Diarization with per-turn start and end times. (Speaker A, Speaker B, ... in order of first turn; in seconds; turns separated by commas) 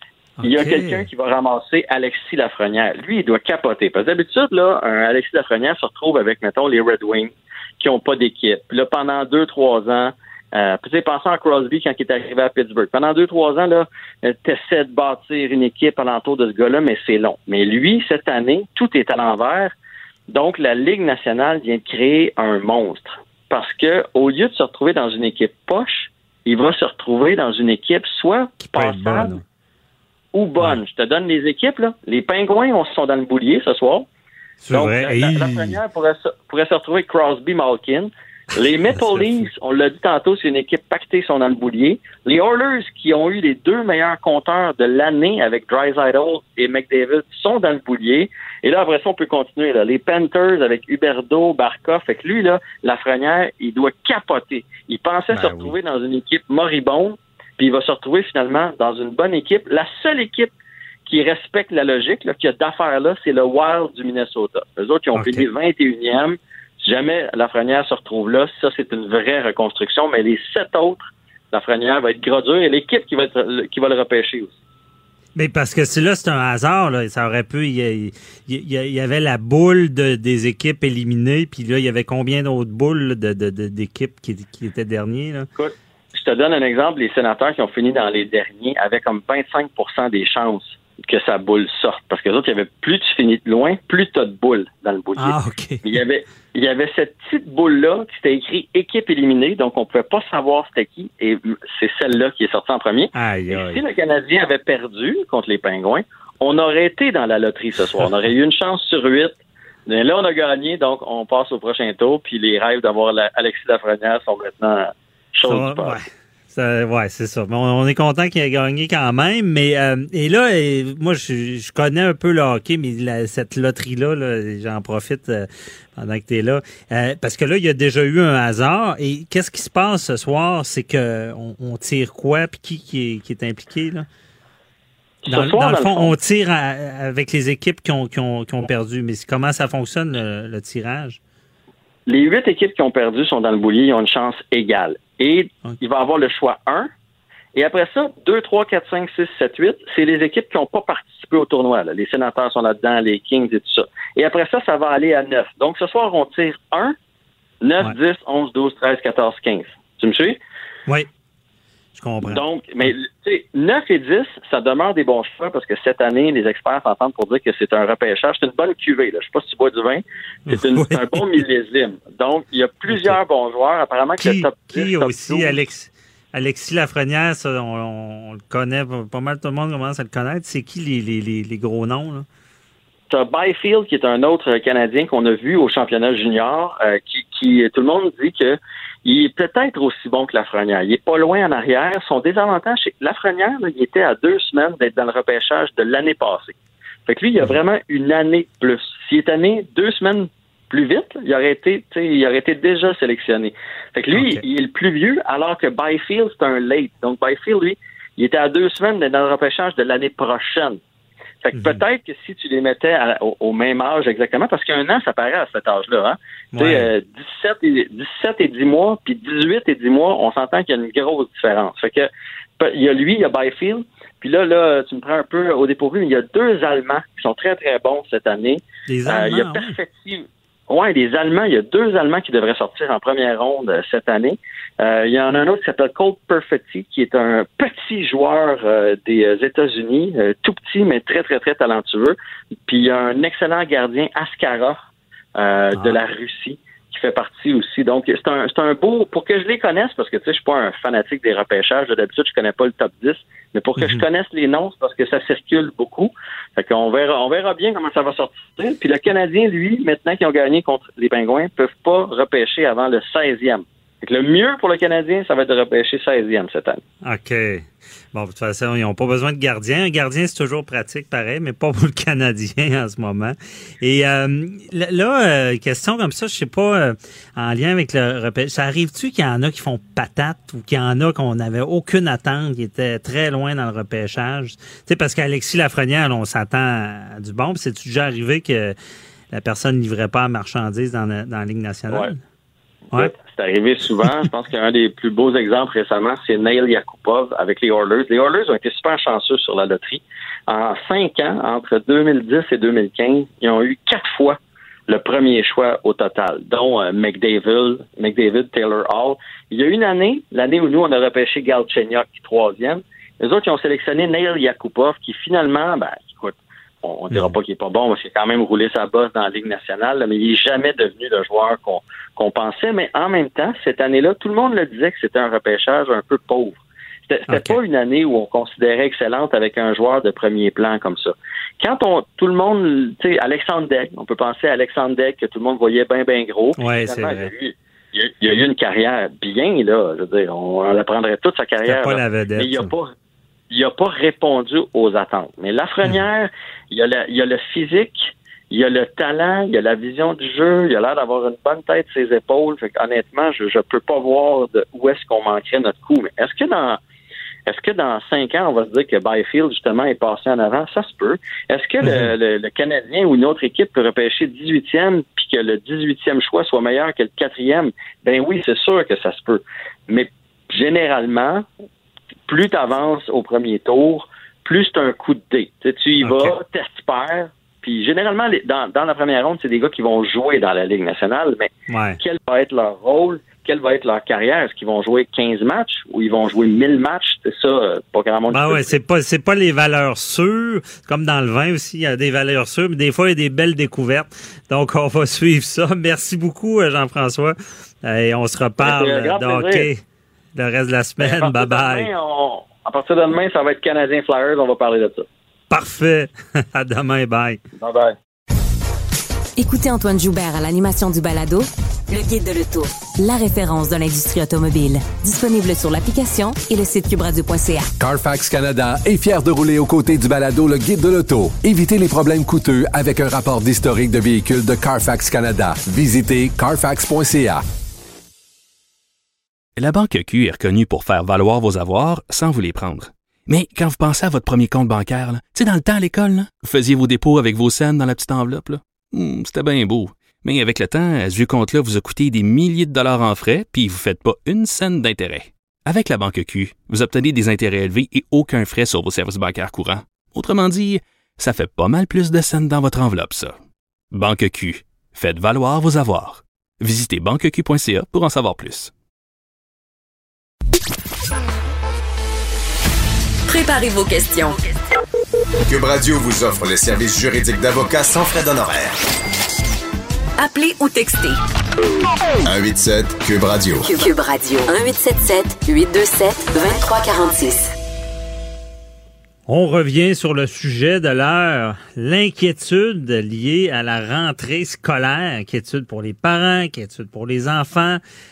Speaker A: 0.4-1.1, Speaker B: 0.4-19.7, Speaker B: 20.3-29.4, Speaker A: 28.7-29.4, Speaker B: 30.3-34.1, Speaker A: 34.6-35.8, Speaker B: 34.7-60.5, Speaker A: 39.0-39.4, Speaker A: 55.3-55.7, Speaker B: 61.1-74.5, Speaker A: 65.1-65.5, Speaker A: 75.4-85.5, Speaker B: 85.5-109.3, Speaker A: 95.2-95.8, Speaker A: 103.1-103.8, Speaker B: 109.9-116.0, Speaker A: 115.5-134.1, Speaker B: 135.2-136.1, Speaker A: 135.3-141.2, Speaker B: 142.1-146.9, Speaker B: 147.6-157.0, Speaker B: 157.6-160.4, Speaker A: 161.9-162.4, Speaker B: 162.2-175.6, Speaker A: 170.5-171.2, Speaker A: 172.9-173.2, Speaker A: 174.2-182.3, Speaker B: 183.1-196.6, Speaker B: 197.1-210.8, Speaker A: 204.1-204.4, Speaker B: 211.4-242.2, Speaker A: 211.5-211.8, Speaker A: 216.5-216.9, Speaker A: 228.9-229.8, Speaker B: 242.7-266.8, Speaker A: 253.8-254.0, Speaker A: 267.0-288.8, Speaker A: 289.3-292.2, Speaker B: 292.9-342.9, Speaker A: 327.3-327.6, Speaker A: 336.6-337.3, Speaker A: 341.7-342.7, Speaker B: 343.5-356.8, Speaker B: 357.5-371.5, Speaker A: 361.8-362.1, Speaker B: 372.3-388.8, Speaker A: 376.0-376.3, Speaker A: 381.7-382.0, Speaker A: 388.3-399.8, Speaker B: 398.6-399.7, Speaker A: 400.4-401.9, Speaker B: 401.0-405.1, Speaker A: 405.5-407.4, Speaker B: 407.6-408.0, Speaker C: 409.4-417.7, Speaker D: 417.8-427.4, Speaker E: 429.6-453.4, Speaker E: 453.9-458.7, Speaker C: 463.3-464.5, Speaker F: 465.5-468.8, Speaker C: 470.2-471.2, Speaker F: 472.3-473.7, Speaker C: 473.6-477.5, Speaker A: 479.3-487.8